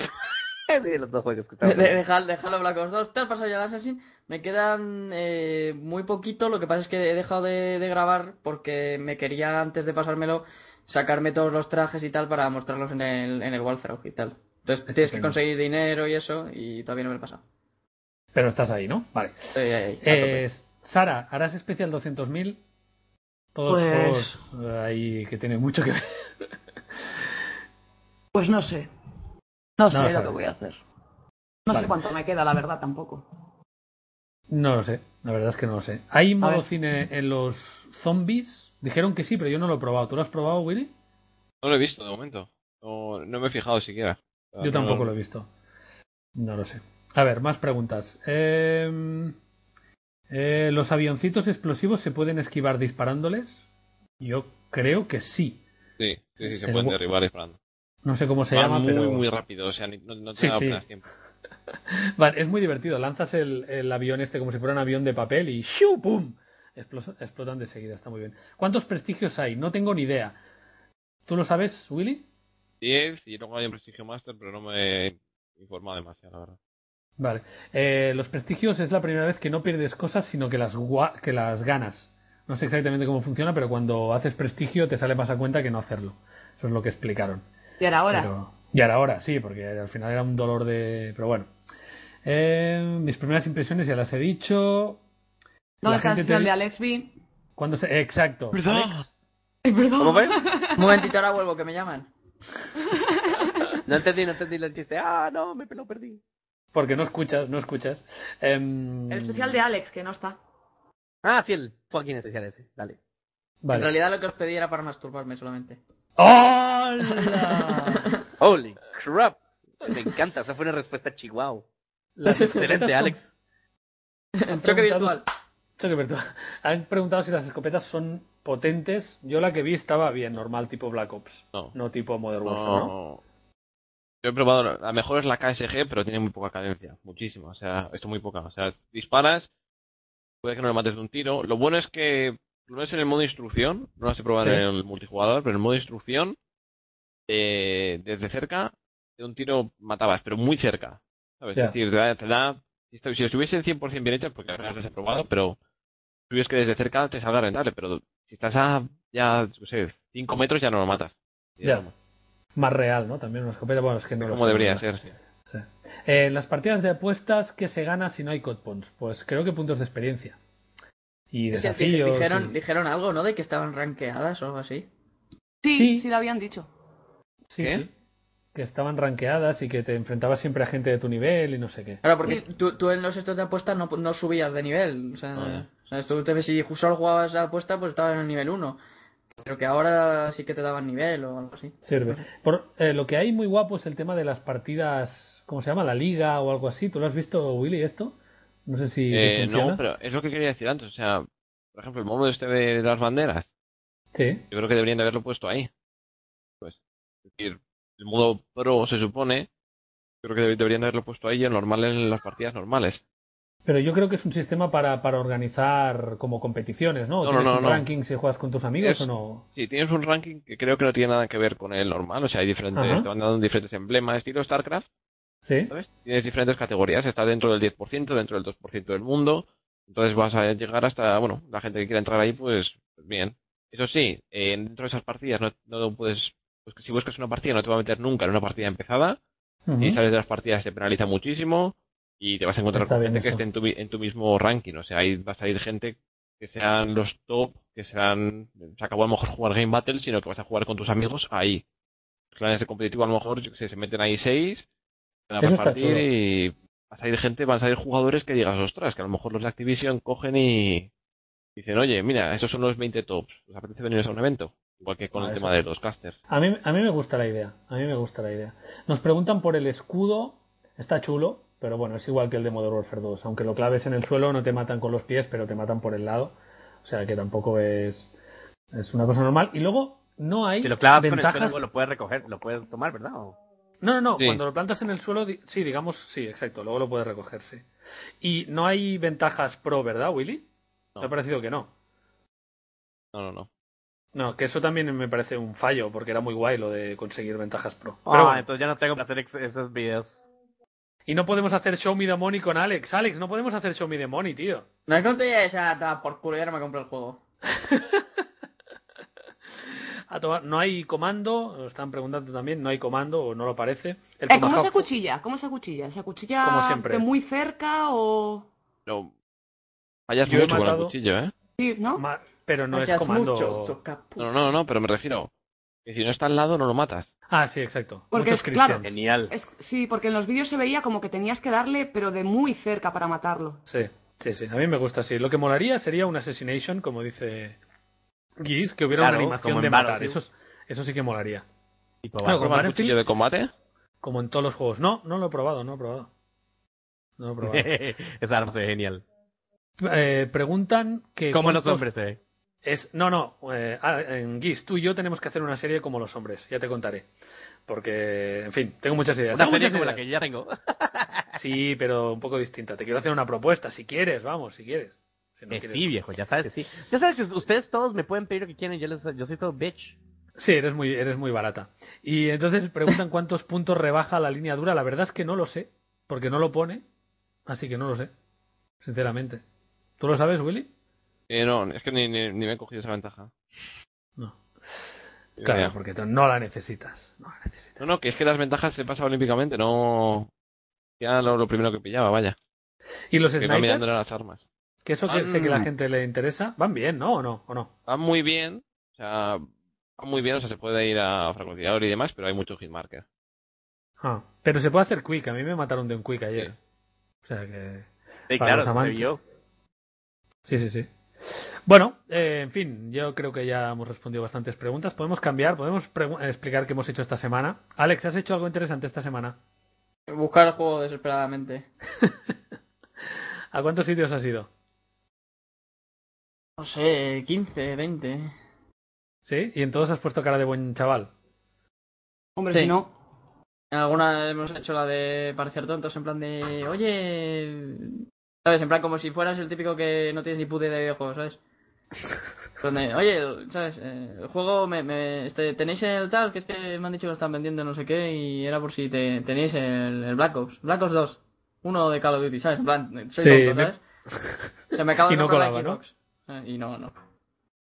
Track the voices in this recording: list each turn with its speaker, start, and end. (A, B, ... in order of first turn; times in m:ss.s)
0:00.7-0:02.0 A
0:01.6-0:17.4 B
0:14.9-0:15.4 C
0:18.3-0:22.6 C
0:19.5-0:20.4 B
0:23.5-0:26.1 C
0:23.7-0:24.4 D
0:28.3-0:28.9 D
0:29.8-0:30.8 D
0:29.9-0:30.3 C
0:31.6-0:33.2 D
0:31.7-0:32.0 C
0:34.5-0:40.9 C
0:41.6-0:45.1 E
0:44.6-0:45.5 C
0:46.4-0:49.4 C
0:50.3-0:53.6 C
0:54.2-0:55.6 C
0:56.0-0:57.6 E
0:56.6-0:57.0 C
0:58.0-0:59.2 C
0:58.5-1:01.0 E
1:00.3-1:00.8 C
1:01.9-1:10.4 C
1:11.2-1:12.3 C
1:12.8-1:16.6 E
1:17.2-1:27.4 C
1:27.8-1:28.3 D
1:28.1-1:31.5 C
1:32.2-1:35.0 C
1:35.8-1:37.1 D
1:35.8-1:36.5 C
1:37.6-1:39.0 C
1:39.6-1:41.1 D
1:40.0-1:40.4 A
1:40.8-1:42.1 B
1:42.8-1:43.7 D
1:43.8-1:46.2 A
1:46.7-1:49.6 C
1:49.1-1:50.4 D
1:51.2-1:53.0 A
1:53.6-1:53.9 C
1:53.7-1:55.8 B
1:56.2-1:58.1 C
1:57.3-1:58.2 B
1:58.4-2:01.6 A
2:02.2-2:03.2 C
2:02.3-2:02.6 B
2:02.3-2:03.3 A
2:04.4-2:05.2 B
2:04.5-2:05.2 C
2:05.8-2:12.9 C
2:12.4-2:13.2 E
2:14.2-2:19.5 E
2:20.4-2:26.4 E
2:24.4-2:24.6 C
2:27.3-2:35.6 E
2:36.3-2:41.9 E
2:42.6-2:44.8 C
2:44.2-2:45.1 E
2:45.5-2:50.4 C
2:51.3-2:52.5 C
2:51.5-2:54.9 B
2:55.6-2:56.7 D
2:55.7-2:56.1 C
2:57.5-2:57.9 C
2:57.6-2:57.8 E
2:58.5-3:02.0 C
3:02.0-3:08.8 B
3:05.4-3:05.6 E
3:09.4-3:12.2 B
3:11.8-3:19.8 C
3:19.1-3:23.5 E
3:24.1-3:24.4 C
3:24.5-3:25.7 E
3:27.3-3:29.5 E
3:30.2-3:33.0 E
3:33.6-3:39.4 C
3:37.2-3:37.8 E
3:38.8-3:44.8 E
3:42.7-3:43.1 C
3:45.4-3:45.7 C
3:45.7-3:59.2 E
3:59.7-4:00.0 C
3:59.8-4:11.6 E
4:02.7-4:03.4 C
4:12.3-4:14.6 E
4:15.3-4:20.9 E
4:15.4-4:16.0 C
4:21.6-4:26.2 E
4:25.2-4:25.5 C
4:26.3-4:38.1 C
4:38.7-4:41.6 C
4:40.6-4:43.4 A
4:43.8-4:47.6 C
4:48.2-4:50.5 C
4:51.0-4:51.7 C
4:53.1-4:53.5 E
4:54.1-4:58.4 C
4:58.1-5:00.2 A
5:01.1-5:04.6 C
5:04.9-5:07.2 B
5:07.6-5:08.0 C
5:10.1-5:14.9 C
5:14.3-5:18.5 D
5:16.4-5:17.0 C
5:18.9-5:19.1 E
5:20.1-5:21.3 E
5:20.2-5:20.9 C
5:21.6-5:22.0 D
5:22.0-5:23.8 C
5:22.7-5:24.5 B
5:24.2-5:25.3 E
5:25.8-5:27.1 E
5:27.3-5:28.9 C
5:28.1-5:33.6 D
5:28.8-5:29.3 A
5:33.7-5:37.6 C
5:38.4-5:41.4 C
5:39.0-5:40.2 A
5:42.0-5:42.6 A
5:42.2-5:43.0 C
5:42.4-5:43.5 E
5:44.0-5:46.1 C
5:47.2-5:47.7 C
5:47.4-5:49.0 A
5:49.8-5:51.8 C
5:51.3-5:52.2 A
5:52.6-5:57.1 C
5:57.7-6:00.0 C
5:59.3-6:01.3 A
6:01.3-6:05.9 C
6:05.5-6:10.0 A
6:10.4-6:16.8 C
6:17.4-6:18.1 C
6:18.8-6:19.4 C
6:20.0-6:20.7 C
6:21.3-6:23.3 E
6:24.2-6:24.8 C
6:25.4-6:25.7 E
6:25.4-6:27.8 C
6:27.8-6:30.3 E
6:31.0-6:32.4 E
6:33.1-6:34.0 C
6:33.4-6:34.4 E
6:34.8-6:37.7 C
6:35.1-6:35.7 E
6:37.9-6:39.4 E
6:40.0-6:43.0 E
6:44.0-6:46.5 C
6:47.2-6:49.1 C
6:48.3-6:49.2 A
6:50.4-6:59.4 C
7:00.1-7:01.7 B
7:03.5-7:04.5 C
7:06.6-7:08.3 B
7:09.2-7:11.1 C
7:12.4-7:12.9 D
7:13.7-7:21.4 B
7:22.6-7:33.8 B
7:33.2-7:33.7 C
7:34.7-7:37.0 B
7:35.0-7:35.8 C